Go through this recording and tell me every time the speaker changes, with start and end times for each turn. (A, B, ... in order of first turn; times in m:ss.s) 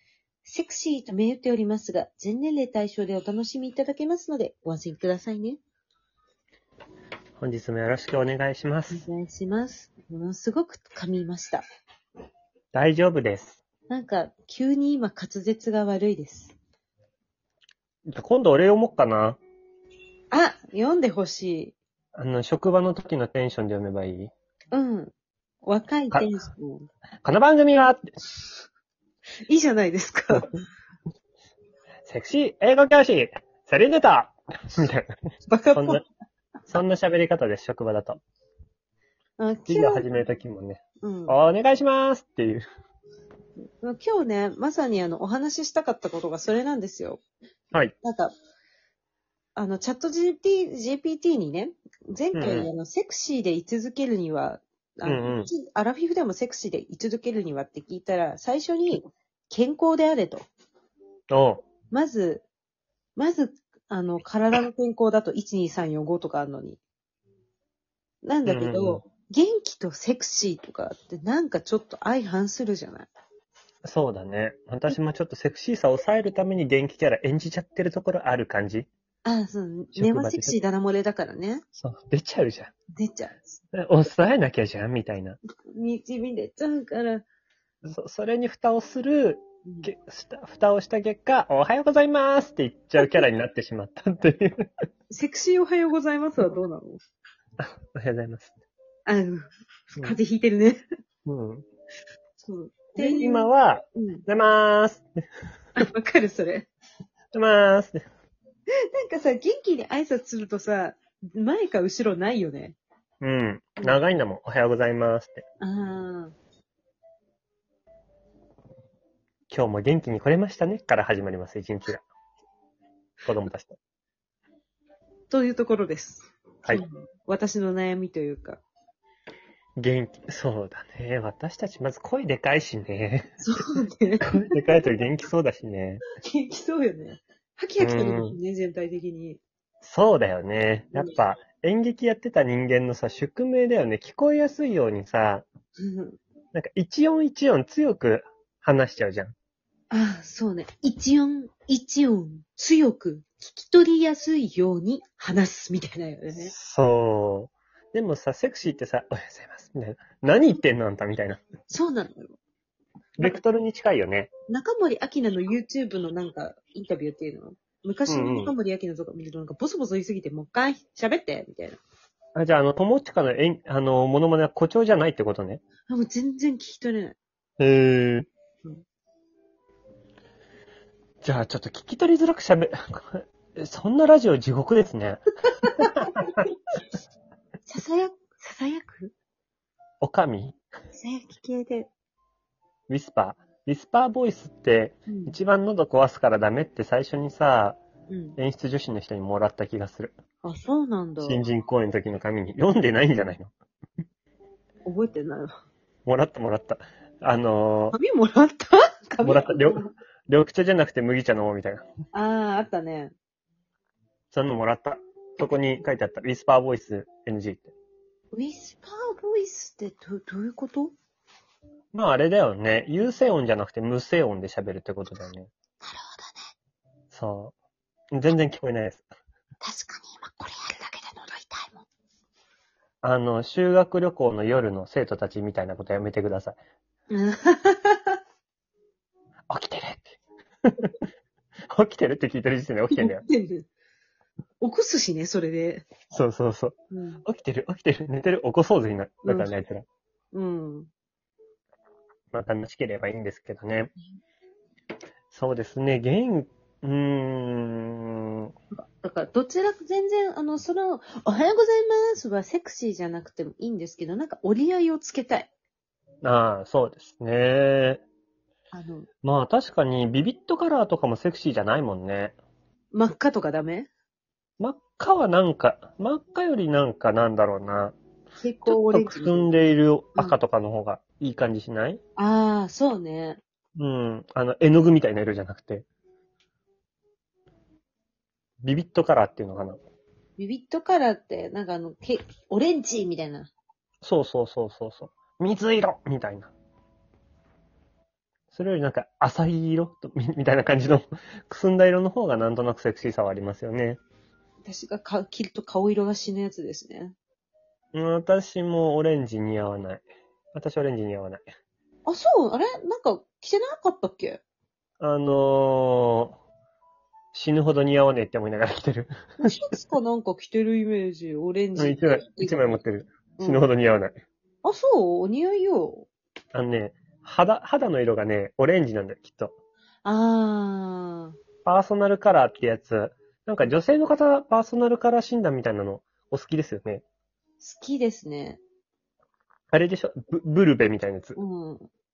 0:00.4-0:05.6 A
0:07.4-0:09.0 B
0:08.9-0:11.6 A
0:12.7-0:13.6 B
0:13.9-0:16.6 A
0:18.1-0:19.4 B
0:20.3-0:21.8 A
0:22.2-0:24.3 B
0:24.7-0:25.1 A
0:25.6-0:26.9 A
0:27.2-0:28.1 B
0:29.5-0:30.5 A
0:32.1-0:35.1 B
0:35.5-0:36.0 A
0:35.7-0:36.0 B
0:36.7-0:38.2 B
0:39.4-0:40.1 A
0:39.7-0:42.6 B
0:41.0-0:41.4 A
0:43.8-0:47.2 A
0:48.0-0:48.3 A
0:49.6-1:00.4 A
0:52.3-0:52.7 B
0:55.0-0:55.5 B
1:01.3-1:01.6 B
1:01.9-1:02.4 A
1:03.2-1:06.8 A
1:08.2-1:13.1 A
1:08.5-1:09.0 B
1:13.8-1:18.9 B
1:19.2-1:21.6 A
1:20.0-1:20.6 B
1:21.8-1:22.7 B
1:23.0-1:23.4 A
1:23.7-1:25.4 B
1:25.8-1:27.2 A
1:27.9-1:34.7 B
1:35.1-1:37.0 A
1:37.6-1:38.5 B
1:39.1-1:40.8 A
1:41.3-1:41.6 B
1:42.4-1:44.2 A
1:43.0-1:45.1 B
1:45.8-1:46.7 A
1:47.3-1:48.0 B
1:48.9-1:52.8 A
1:53.2-1:55.4 B
1:55.6-1:56.4 A
1:59.5-2:02.0 B
2:03.2-2:03.8 B
2:05.3-2:08.6 A
2:09.8-2:13.3 B
2:13.4-2:14.3 A
2:14.3-2:16.0 B
2:16.2-2:19.4 A
2:17.8-2:18.4 B
2:19.8-2:25.5 B
2:25.8-2:26.2 A
2:26.5-2:29.4 B
2:29.9-2:36.5 A
2:36.5-2:41.4 B
2:41.7-2:42.4 A
2:43.2-2:44.3 B
2:44.5-2:51.8 A
2:48.1-2:48.6 B
2:52.4-2:55.6 B
2:55.9-2:57.2 A
2:57.6-2:58.3 B
3:01.2-3:05.2 B
3:05.6-3:06.1 A
3:05.8-3:06.1 B
3:07.7-3:09.1 A
3:10.0-3:10.6 B
3:11.0-3:11.9 A
3:12.9-3:17.8 B
3:15.1-3:15.4 A
3:18.1-3:18.4 A
3:18.4-3:20.2 B
3:20.4-3:21.4 A
3:21.2-3:23.5 B
3:24.8-3:25.5 A
3:26.1-3:28.0 B
3:27.9-3:29.9 A
3:29.2-3:31.9 B
3:32.1-3:33.1 A
3:34.3-3:37.7 B
3:38.3-3:40.9 A
3:41.9-3:45.5 B
3:45.8-3:46.4 A
3:47.1-3:47.5 B
3:48.1-3:49.1 B
3:49.6-3:51.8 A
3:53.0-3:56.6 B
3:57.1-3:58.2 A
3:59.5-4:00.9 B
4:01.7-4:03.2 B
4:02.9-4:03.7 A
4:04.6-4:05.9 A
4:06.1-4:09.8 B
4:06.9-4:07.2 A
4:09.3-4:09.5 A
4:10.3-4:10.9 A
4:12.3-4:13.9 B
4:15.3-4:18.5 B
4:18.7-4:25.5 A
4:26.2-4:28.0 B
4:28.7-4:29.1 A
4:29.2-4:32.4 B
4:32.9-4:33.9 A
4:34.6-4:38.0 B
4:38.4-4:39.5 A
4:38.7-4:42.0 B
4:42.2-4:43.4 A
4:43.8-4:45.8 B
4:48.6-4:49.8 B
4:50.4-4:53.5 A
4:54.0-4:56.5 B
4:58.5-5:04.0 B
5:04.6-5:07.2 A
5:07.9-5:11.5 B
5:12.1-5:14.4 A
5:15.0-5:16.4 B
5:17.3-5:19.2 B
5:19.4-5:22.8 A
5:21.8-5:24.2 B
5:23.4-5:23.7 A
5:24.6-5:26.1 A
5:26.5-5:29.5 B
5:30.0-5:31.4 A
5:31.6-5:37.0 B
5:37.6-5:38.6 A
5:39.7-5:41.4 B
5:41.4-5:41.9 A